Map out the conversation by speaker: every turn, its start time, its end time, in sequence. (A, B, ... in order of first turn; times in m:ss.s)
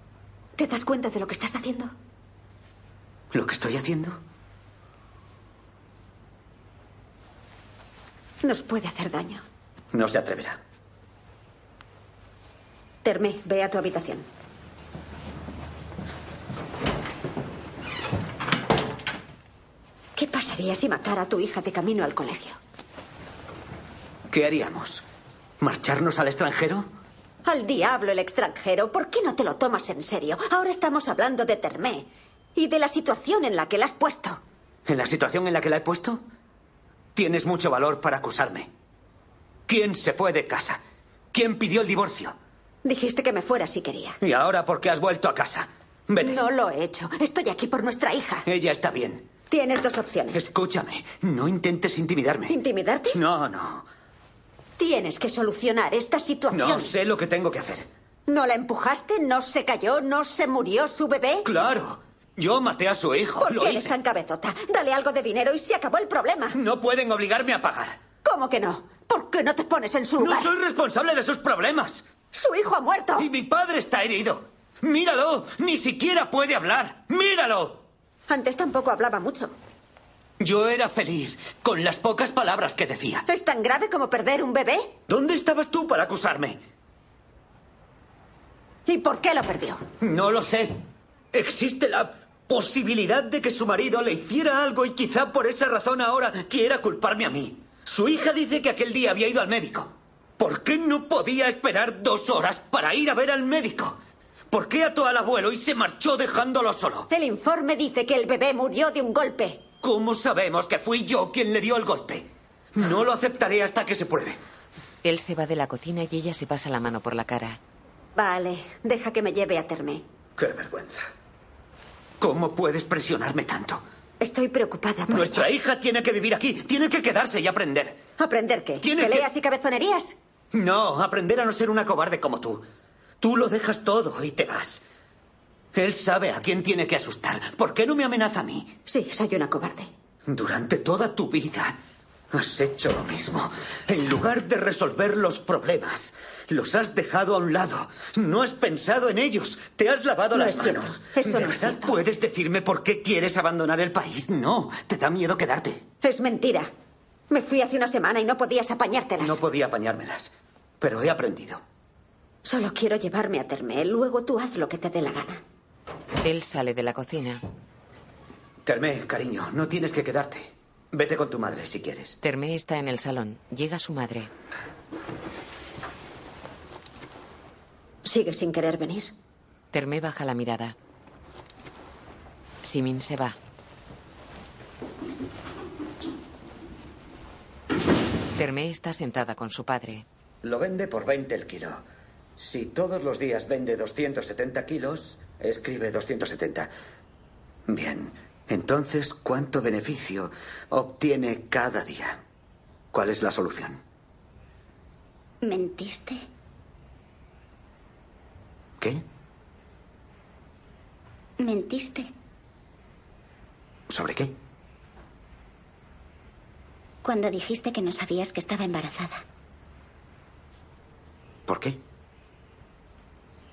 0:00.6-0:01.9 A
0:03.3-0:04.2 B
0:08.4-0:09.4 A
0:09.9-0:10.6 B
0:13.0-0:14.2 A
0:20.2-0:22.6 A
0:24.3-0:25.0 B
0:25.6-0:26.9 B
0:27.4-0:34.4 A
0:34.8-0:36.2 B
0:37.2-0:38.7 B
0:39.7-0:40.8 B
0:41.3-0:42.4 B
0:42.8-0:44.2 A
0:44.2-0:46.4 B
0:46.2-0:48.4 A
0:48.4-0:49.3 B
0:49.5-0:50.5 A
0:50.3-0:52.5 B
0:52.5-0:53.2 A
0:53.1-0:53.8 B
0:54.8-0:56.9 A
0:56.5-0:57.9 B
0:58.3-1:01.4 A
1:01.4-1:03.9 B
1:03.4-1:06.6 A
1:06.5-1:08.0 B
1:08.2-1:10.5 A
1:10.2-1:12.0 B
1:12.3-1:13.3 A
1:13.2-1:17.8 B
1:18.3-1:19.5 A
1:20.4-1:23.2 B
1:23.3-1:24.9 A
1:25.1-1:26.6 B
1:28.9-1:29.8 A
1:30.0-1:30.8 B
1:31.3-1:44.0 B
1:44.5-1:47.1 B
1:47.1-1:49.6 A
1:49.8-1:54.4 B
1:55.0-1:57.6 C
1:58.2-2:00.0 A
2:00.4-2:01.0 B
2:02.2-2:03.8 B
2:04.2-2:05.5 A
2:05.1-2:08.0 B
2:08.2-2:10.2 A
2:08.8-2:09.3 B
2:10.5-2:12.6 B
2:13.2-2:14.8 B
2:15.7-2:18.7 B
2:18.9-2:19.9 A
2:20.3-2:21.8 B
2:22.3-2:35.8 B
2:30.3-2:32.0 A
2:36.0-2:36.7 A
2:37.3-2:39.4 A
2:39.2-2:41.6 B
2:42.4-2:45.4 A
2:46.2-2:47.4 C
2:48.6-2:52.2 B
2:52.2-2:54.3 C
2:58.0-2:59.1 A
2:59.7-3:00.8 C
3:02.6-3:03.4 C
3:08.4-3:10.0 C
3:10.4-3:11.8 B
3:12.4-3:16.7 B
3:17.7-3:22.2 B
3:22.9-3:23.8 B
3:25.4-3:26.2 D
3:31.4-3:32.1 D
3:33.9-3:34.4 B
3:37.0-3:39.2 D
3:41.5-3:41.8 B